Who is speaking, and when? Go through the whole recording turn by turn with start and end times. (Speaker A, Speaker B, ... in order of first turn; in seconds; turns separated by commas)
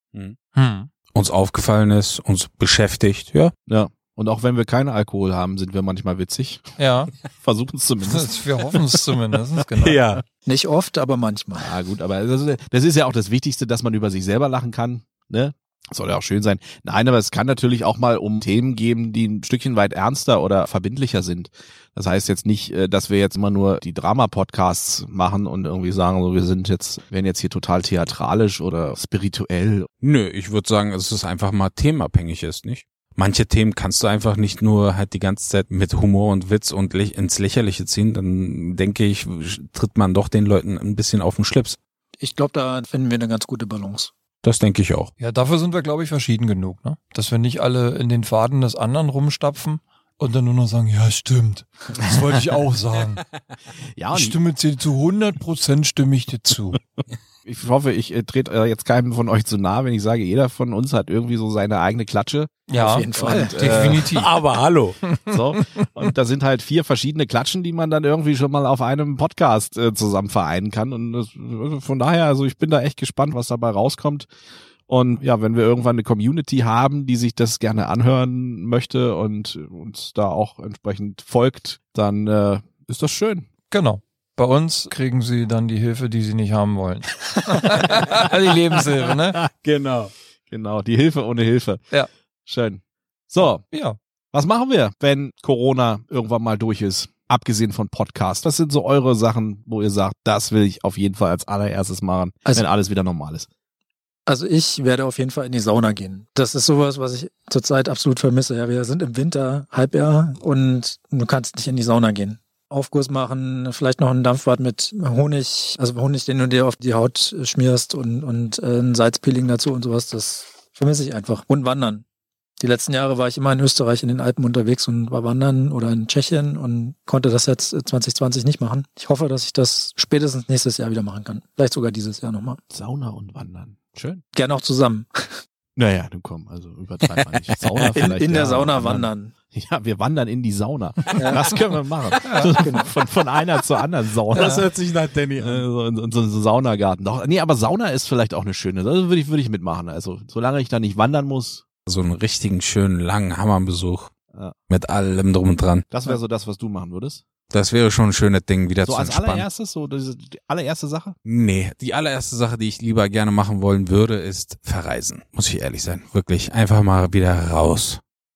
Speaker A: 0.5-0.9, Speaker B: 1.1-3.5, Speaker C: 3.7-6.7, Speaker A: 6.8-7.1, Speaker C: 7.3-8.7, Speaker A: 8.0-10.2, Speaker B: 9.8-10.2, Speaker D: 10.4-11.7, Speaker C: 11.6-29.9, Speaker B: 30.0-41.8, Speaker D: 42.2-44.1, Speaker B: 44.4-45.1, Speaker A: 45.2-53.2, Speaker C: 54.0-54.4, Speaker A: 54.1-56.8, Speaker C: 57.4-62.6, Speaker A: 62.7-64.3, Speaker D: 62.7-63.6, Speaker C: 63.1-64.1, Speaker B: 63.6-65.0, Speaker C: 65.3-74.3, Speaker C: 74.9-83.5, Speaker A: 83.7-89.4, Speaker B: 89.5-90.1, Speaker C: 90.5-91.8, Speaker C: 92.5-93.6, Speaker A: 93.7-94.0, Speaker C: 94.3-103.5, Speaker D: 104.3-122.0, Speaker D: 122.6-132.6, Speaker C: 132.7-134.2, Speaker D: 134.3-135.4, Speaker C: 135.8-144.7, Speaker B: 137.0-137.9, Speaker D: 137.9-139.3, Speaker D: 141.1-141.4, Speaker A: 142.2-142.5, Speaker D: 142.5-142.9, Speaker B: 144.3-145.6, Speaker A: 144.3-144.6, Speaker C: 145.4-151.6, Speaker B: 151.8-154.1, Speaker B: 154.7-155.9, Speaker C: 155.9-157.2, Speaker B: 157.5-159.4, Speaker C: 158.8-161.2, Speaker B: 161.2-168.0